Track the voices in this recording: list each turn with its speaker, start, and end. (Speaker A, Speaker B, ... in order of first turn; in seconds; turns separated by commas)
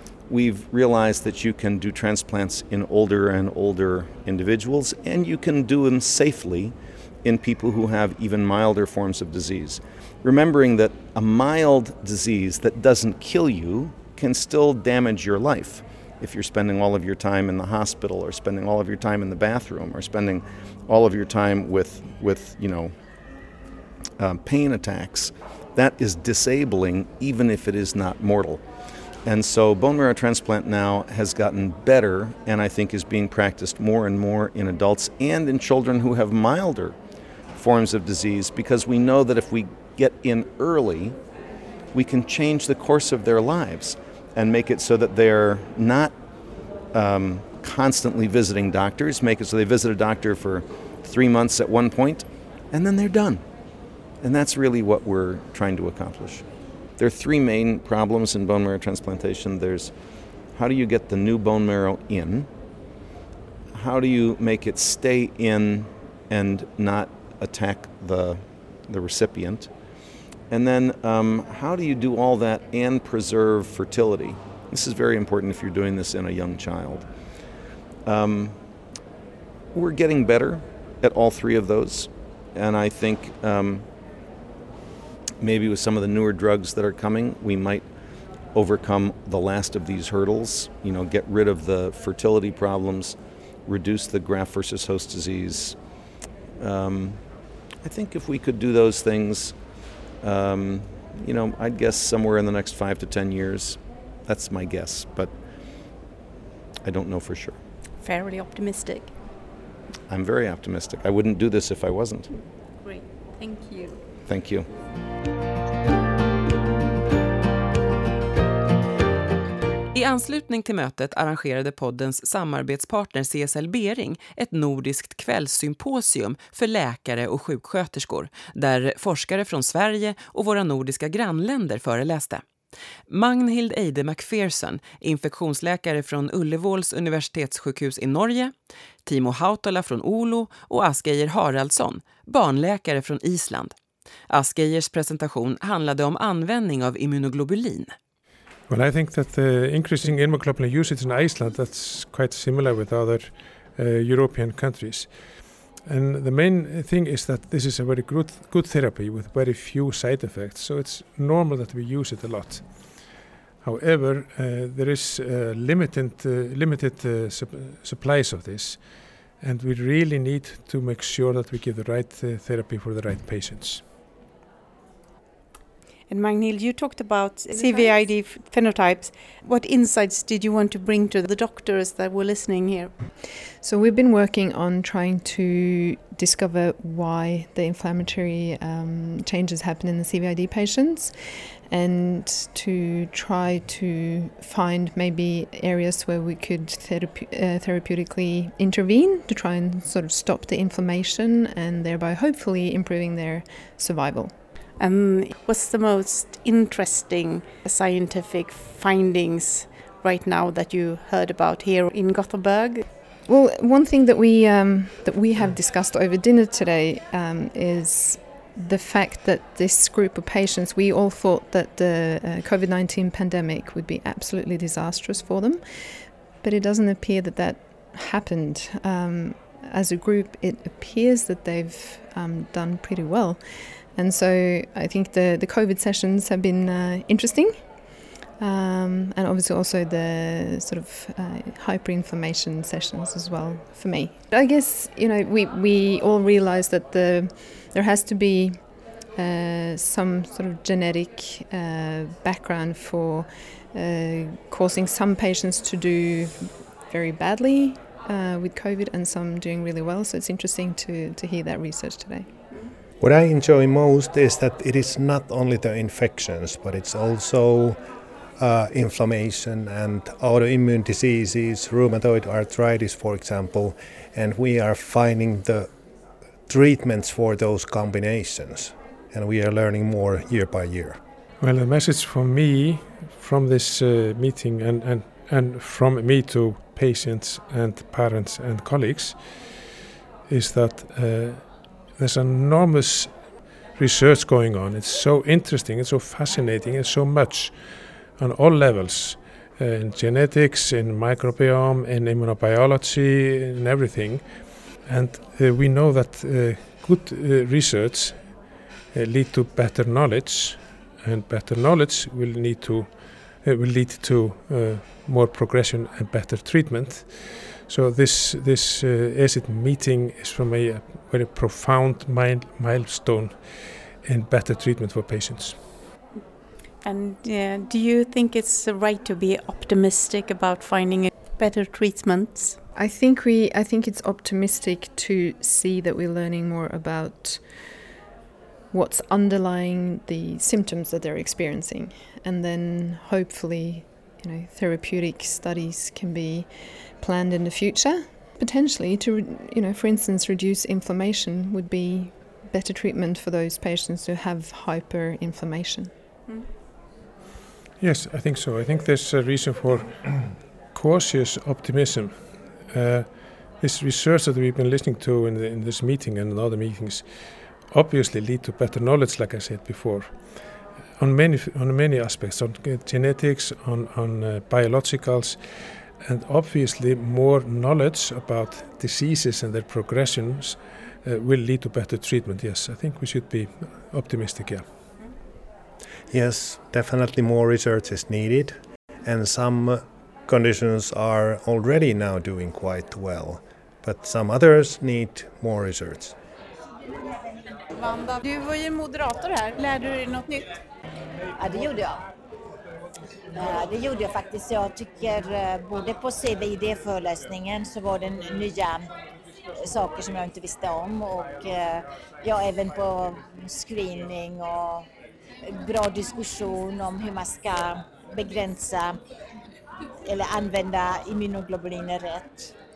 Speaker A: 0.3-22.9, Speaker A: 24.2-28.6, Speaker A: 29.2-37.0, Speaker A: 37.5-41.2, Speaker A: 41.9-46.1, Speaker A: 46.9-53.4, Speaker A: 54.2-56.4, Speaker A: 57.0-59.9, Speaker A: 60.5-62.5, Speaker A: 63.7-69.7, Speaker A: 70.5-77.1, Speaker A: 78.0-78.6, Speaker A: 79.7-83.8, Speaker A: 85.4-87.9, Speaker A: 88.5-95.8, Speaker A: 96.6-97.2, Speaker A: 97.8-99.5, Speaker A: 100.2-105.3, Speaker A: 106.8-107.5, Speaker B: 108.0-109.1, Speaker A: 110.1-112.3, Speaker B: 112.8-114.0, Speaker A: 114.3-114.7, Speaker C: 119.9-132.4, Speaker C: 133.1-138.5, Speaker C: 139.0-143.7, Speaker C: 144.3-147.9, Speaker D: 148.7-173.8, Speaker B: 176.1-182.9, Speaker E: 183.6-204.3, Speaker B: 204.8-212.8, Speaker E: 213.3-237.8, Speaker E: 238.4-262.3, Speaker F: 263.0-267.8, Speaker F: 268.4-275.7, Speaker F: 276.5-281.0, Speaker D: 281.4-289.5, Speaker D: 290.3-325.6, Speaker B: 326.8-332.6, Speaker E: 332.7-337.8, Speaker E: 338.7-355.9, Speaker D: 357.8-384.6, Speaker F: 386.1-396.1, Speaker B: 397.8-400.6, Speaker G: 401.4-402.0, Speaker G: 403.3-408.9, Speaker G: 409.6-414.9, Speaker G: 415.4-419.0, Speaker G: 420.1-422.5